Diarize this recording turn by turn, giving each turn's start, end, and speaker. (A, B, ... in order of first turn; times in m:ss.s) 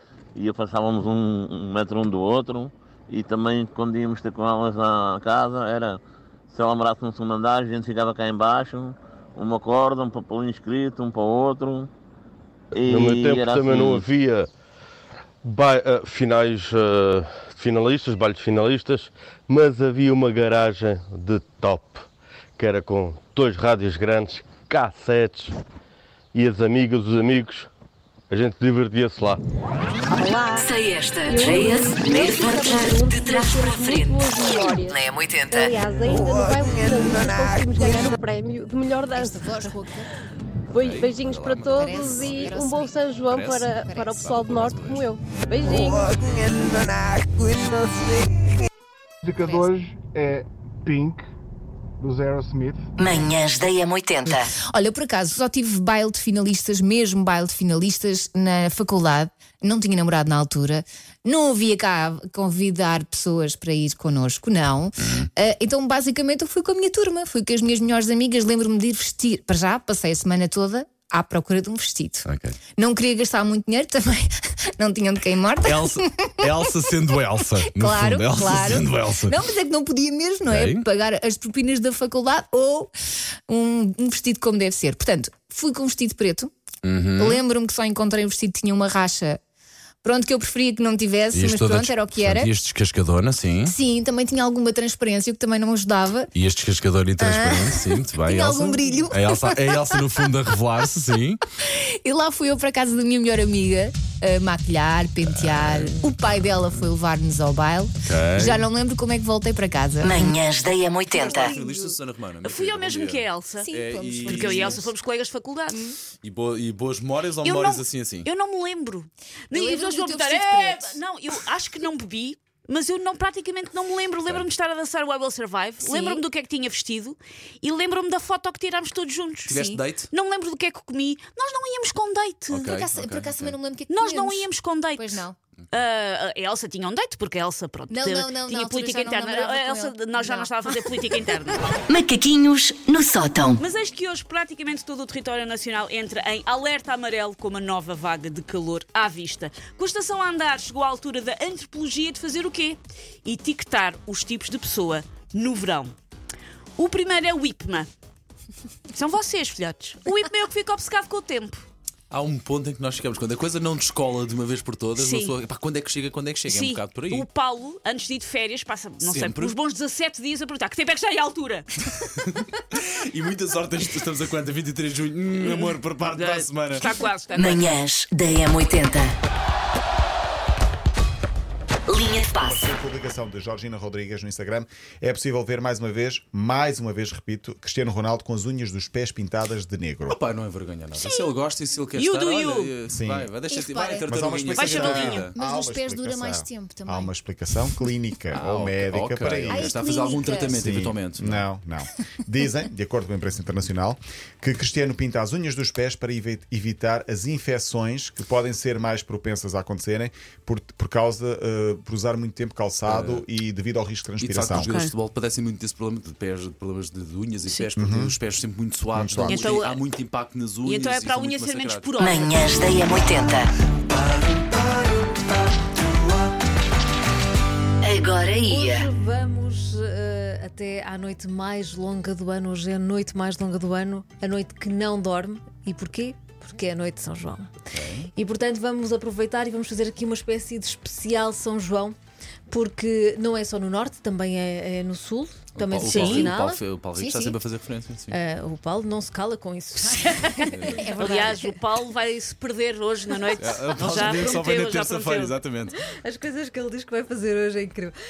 0:00.4-0:11.9 A
0:12.7-0:14.0 A
0:12.8-0:14.5 B
0:15.4-0:22.0 B
0:22.6-0:25.6 B
0:26.3-0:27.7 B
0:28.3-0:29.4 B
0:30.1-0:30.7 C
0:30.6-0:35.8 D
0:31.2-0:39.6 C
0:39.1-0:40.1 E
0:40.7-0:46.4 C
0:40.8-0:42.6 F
0:41.8-0:43.0 E
0:43.3-0:43.7 F
0:43.8-0:44.2 E
0:44.2-0:45.0 F
0:49.2-0:51.2 G
0:49.4-0:49.7 E
0:52.0-0:52.8 G
0:53.0-0:54.5 D
0:54.2-1:12.2 E
1:12.2-1:12.6 F
1:12.8-1:16.8 E
1:15.6-1:19.4 F
1:17.5-1:22.9 E
1:20.5-1:20.8 F
1:23.5-1:26.5 E
1:26.8-1:27.4 F
1:27.2-1:29.4 E
1:30.0-1:32.5 E
1:31.3-1:33.7 F
1:33.6-1:36.3 E
1:36.3-1:41.4 F
1:37.2-1:40.1 E
1:42.0-1:50.4 E
1:45.3-1:46.0 F
1:48.0-1:48.7 F
1:50.0-1:51.5 D
1:51.1-1:52.0 E
1:51.2-1:54.8 F
1:52.4-1:53.7 H
1:53.6-1:54.9 E
1:54.4-1:55.9 H
1:56.2-1:58.3 F
1:57.4-2:12.7 H
1:59.5-2:01.0 E
2:05.8-2:06.2 E
2:09.5-2:10.1 F
2:12.5-2:15.4 E
2:12.5-2:13.6 F
2:13.9-2:15.2 H
2:15.7-2:21.6 H
2:17.9-2:21.2 E
2:21.9-2:23.6 D
2:23.6-2:35.9 H
2:36.8-2:37.9 H
2:38.9-2:41.6 H
2:42.1-2:47.2 F
2:45.0-2:45.4 H
2:46.5-2:51.7 H
2:49.0-2:49.6 F
2:52.0-2:56.9 F
2:55.4-2:57.7 H
2:57.3-2:59.1 D
3:01.9-3:02.6 D
3:02.4-3:10.2 I
3:10.1-3:15.3 F
3:11.0-3:11.3 H
3:11.9-3:12.8 H
3:12.8-3:13.4 I
3:13.5-3:14.2 E
3:14.1-3:19.8 I
3:14.5-3:15.3 H
3:15.1-3:17.1 E
3:18.3-3:21.4 F
3:19.5-3:20.6 E
3:20.5-3:34.7 I
3:32.8-3:33.3 F
3:34.2-3:41.9 F
3:34.6-3:34.9 H
3:37.5-3:37.7 H
3:37.8-3:38.2 I
3:38.9-3:39.6 I
3:39.2-3:39.8 H
3:40.6-3:42.8 H
3:42.0-3:43.5 D
3:43.9-3:44.6 F
3:47.8-3:48.9 D
3:48.4-3:57.5 J
3:57.7-3:58.1 F
3:58.2-4:02.0 J
4:02.5-4:07.3 J
4:05.5-4:08.2 F
4:05.9-4:06.2 H
4:08.1-4:11.6 J
4:10.5-4:10.9 F
4:10.7-4:11.1 E
4:11.0-4:15.3 H
4:13.4-4:15.7 F
4:15.8-4:17.9 J